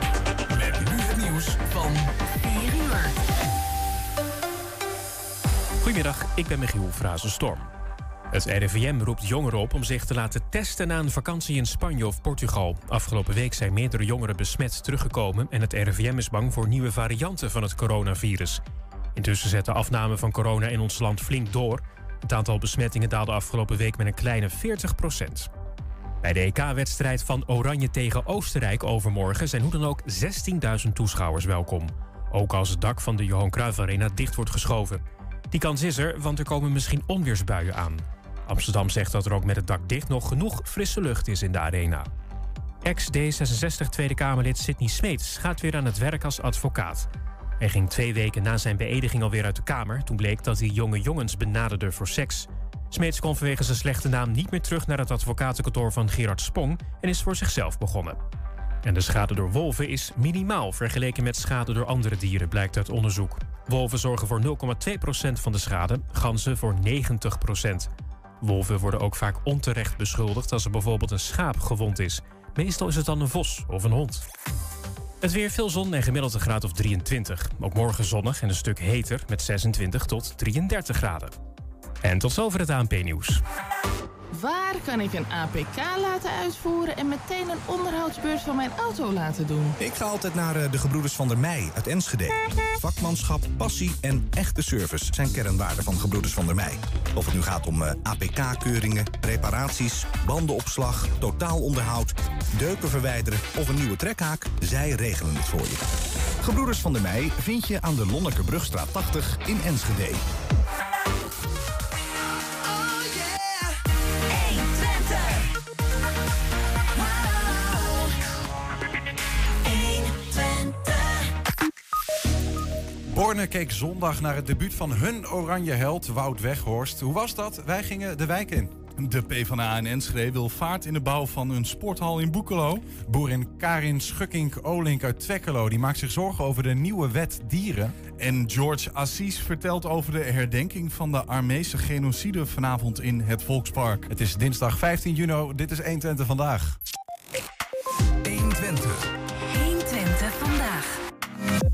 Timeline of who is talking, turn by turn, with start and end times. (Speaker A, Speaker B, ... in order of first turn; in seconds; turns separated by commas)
Speaker A: 0.6-2.1, Speaker B: 2.4-3.2, Speaker C: 5.8-7.7, Speaker C: 8.3-18.6, Speaker C: 19.1-25.5, Speaker C: 26.2-42.1, Speaker C: 42.8-47.1, Speaker C: 47.6-58.2, Speaker C: 58.8-67.9, Speaker C: 68.4-74.3, Speaker C: 75.2-81.4, Speaker C: 82.0-83.4, Speaker D: 84.3-89.8, Speaker A: 89.8-110.2, Speaker B: 114.3-115.1, Speaker B: 119.8-120.7, Speaker E: 123.1-128.7, Speaker F: 129.0-132.9, Speaker E: 133.1-138.0, Speaker F: 138.2-144.1, Speaker E: 144.1-146.8, Speaker F: 148.2-149.0, Speaker B: 149.5-151.0